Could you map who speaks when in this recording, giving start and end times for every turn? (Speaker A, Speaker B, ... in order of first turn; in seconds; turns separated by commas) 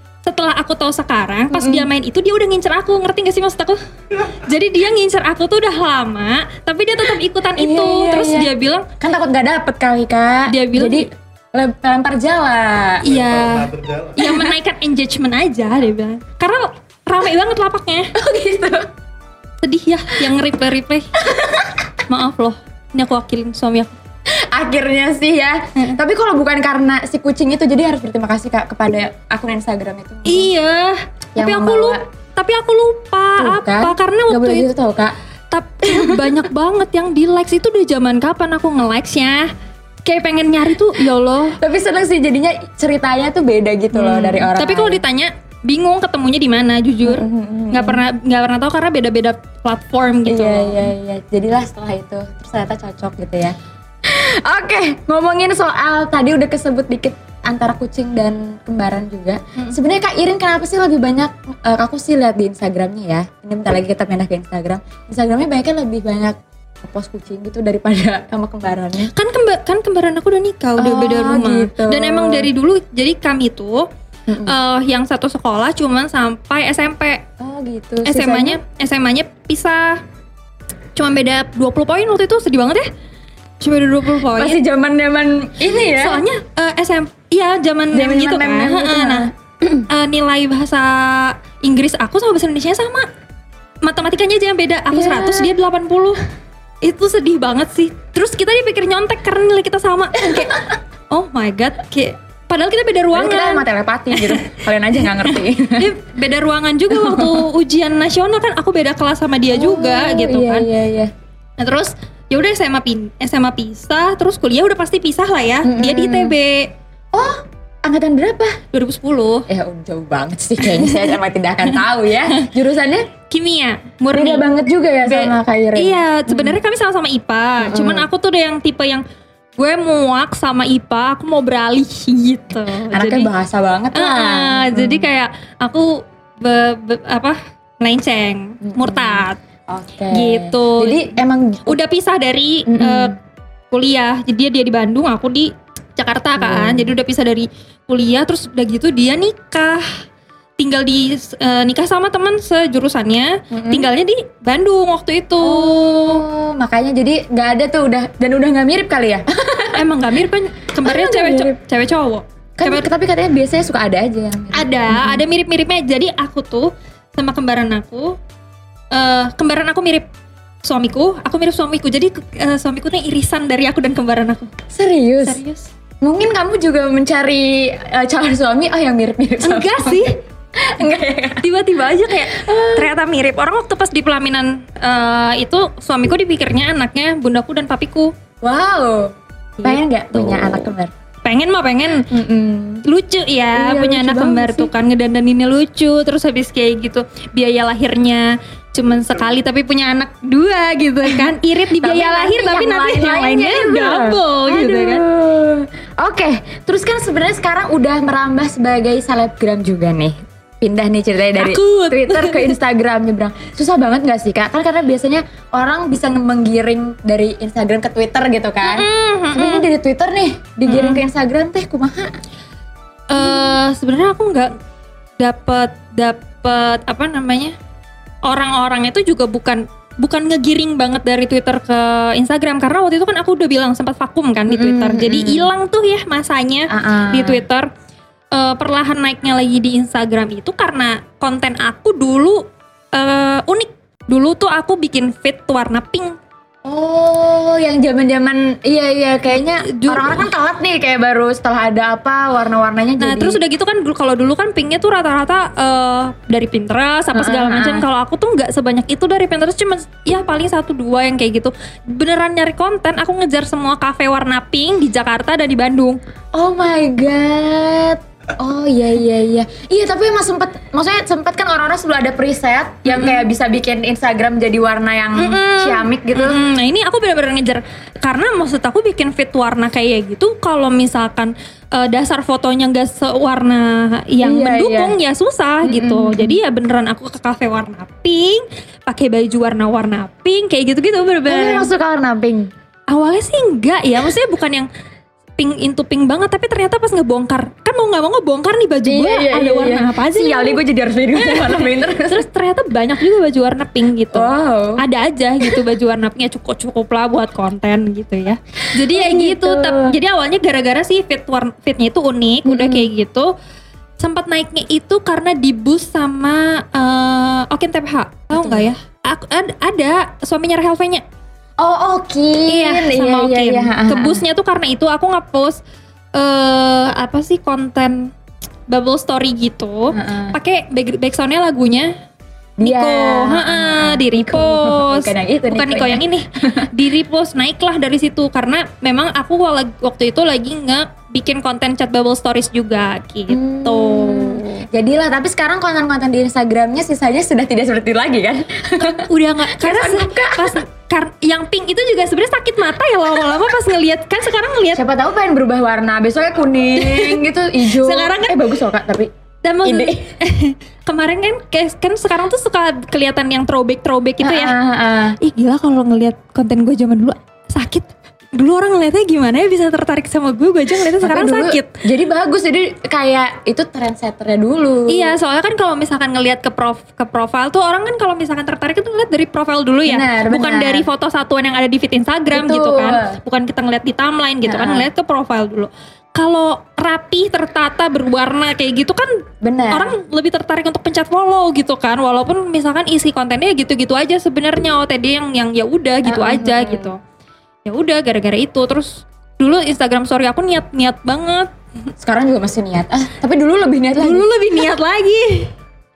Speaker A: 0.2-8.9, Speaker B: 1.5-1.9, Speaker B: 7.6-13.1, Speaker A: 10.5-11.1, Speaker A: 13.0-18.1, Speaker B: 18.1-18.9, Speaker A: 19.6-21.1, Speaker B: 21.2-21.9, Speaker A: 22.1-23.9, Speaker B: 24.4-30.5, Speaker A: 30.2-34.7, Speaker B: 31.4-32.0, Speaker B: 33.4-35.1, Speaker A: 35.5-39.5, Speaker B: 35.9-36.4, Speaker A: 40.0-41.6, Speaker B: 41.6-45.0, Speaker A: 43.9-50.9, Speaker B: 47.1-48.0, Speaker B: 50.3-53.5, Speaker B: 54.1-69.1, Speaker A: 69.1-73.9, Speaker B: 70.8-72.5, Speaker B: 74.3-74.5, Speaker A: 74.5-77.2, Speaker B: 77.4-78.6, Speaker A: 78.0-80.0, Speaker A: 81.0-82.9, Speaker A: 83.6-84.6, Speaker B: 84.4-86.2, Speaker A: 85.7-89.3, Speaker B: 87.9-89.9, Speaker A: 89.9-93.1, Speaker A: 93.8-96.2, Speaker B: 94.9-95.5, Speaker A: 96.8-100.5, Speaker B: 100.2-100.7, Speaker A: 101.1-110.7, Speaker B: 103.1-106.0, Speaker B: 106.9-107.4, Speaker B: 109.5-111.1, Speaker A: 111.6-116.7, Speaker B: 115.6-116.4, Speaker B: 117.1-118.6, Speaker A: 118.7-119.5, Speaker B: 119.5-123.1, Speaker A: 120.6-122.5, Speaker A: 123.3-124.5, Speaker B: 124.1-126.6, Speaker A: 125.0-129.0, Speaker B: 127.6-128.1, Speaker A: 129.6-133.3, Speaker B: 132.9-135.1, Speaker A: 133.9-139.4, Speaker B: 138.6-141.8, Speaker A: 140.1-141.1, Speaker A: 141.7-143.1, Speaker B: 142.7-143.2, Speaker A: 143.7-150.0, Speaker B: 146.4-146.9, Speaker A: 150.6-156.2, Speaker B: 153.5-153.9, Speaker B: 155.4-159.8, Speaker A: 159.8-162.9, Speaker B: 160.8-161.6, Speaker B: 162.6-165.2, Speaker A: 164.5-168.2, Speaker A: 168.9-170.1, Speaker A: 170.6-174.5, Speaker B: 174.7-175.4, Speaker A: 175.2-175.7, Speaker B: 176.0-181.4, Speaker A: 179.4-180.1, Speaker A: 181.4-188.1, Speaker B: 182.2-182.9, Speaker B: 188.4-189.1, Speaker A: 189.6-190.7, Speaker B: 189.6-190.9, Speaker A: 191.2-192.1, Speaker B: 192.1-192.9, Speaker A: 192.8-205.1, Speaker B: 193.6-194.7, Speaker B: 201.1-222.1, Speaker A: 211.4-212.6, Speaker A: 218.6-219.7, Speaker A: 220.7-221.0, Speaker A: 223.1-224.5, Speaker B: 223.2-223.6, Speaker A: 225.2-227.6, Speaker A: 228.2-237.7, Speaker B: 234.5-235.5, Speaker B: 236.7-237.4, Speaker A: 238.3-246.2, Speaker B: 246.7-253.4, Speaker A: 249.5-250.3, Speaker A: 253.0-266.0, Speaker B: 257.1-257.9, Speaker B: 266.3-276.4, Speaker A: 272.9-273.3, Speaker A: 275.2-291.7, Speaker B: 284.2-285.0, Speaker B: 285.6-286.4, Speaker B: 291.3-292.5, Speaker A: 292.9-294.7, Speaker A: 295.4-300.6, Speaker B: 298.9-302.2, Speaker A: 301.1-313.3, Speaker B: 304.1-304.8, Speaker B: 308.6-310.0, Speaker B: 312.4-312.9, Speaker A: 314.0-321.1, Speaker B: 318.3-318.7, Speaker B: 321.6-324.2, Speaker A: 322.5-325.6, Speaker A: 326.1-328.1, Speaker A: 328.7-331.9, Speaker B: 329.9-330.4, Speaker B: 332.6-336.7, Speaker A: 332.6-344.4, Speaker B: 343.3-350.6, Speaker A: 348.9-354.8, Speaker B: 354.8-359.1, Speaker A: 356.8-358.5, Speaker A: 359.4-364.6, Speaker B: 359.6-360.0, Speaker B: 364.2-365.2, Speaker A: 365.2-371.8, Speaker B: 371.0-375.2, Speaker A: 374.9-389.1, Speaker B: 379.9-380.9, Speaker B: 382.3-383.2, Speaker B: 384.5-384.9, Speaker B: 389.4-390.0, Speaker A: 389.7-397.0, Speaker B: 396.1-396.9, Speaker A: 397.6-401.5, Speaker B: 402.0-404.3, Speaker A: 404.0-405.5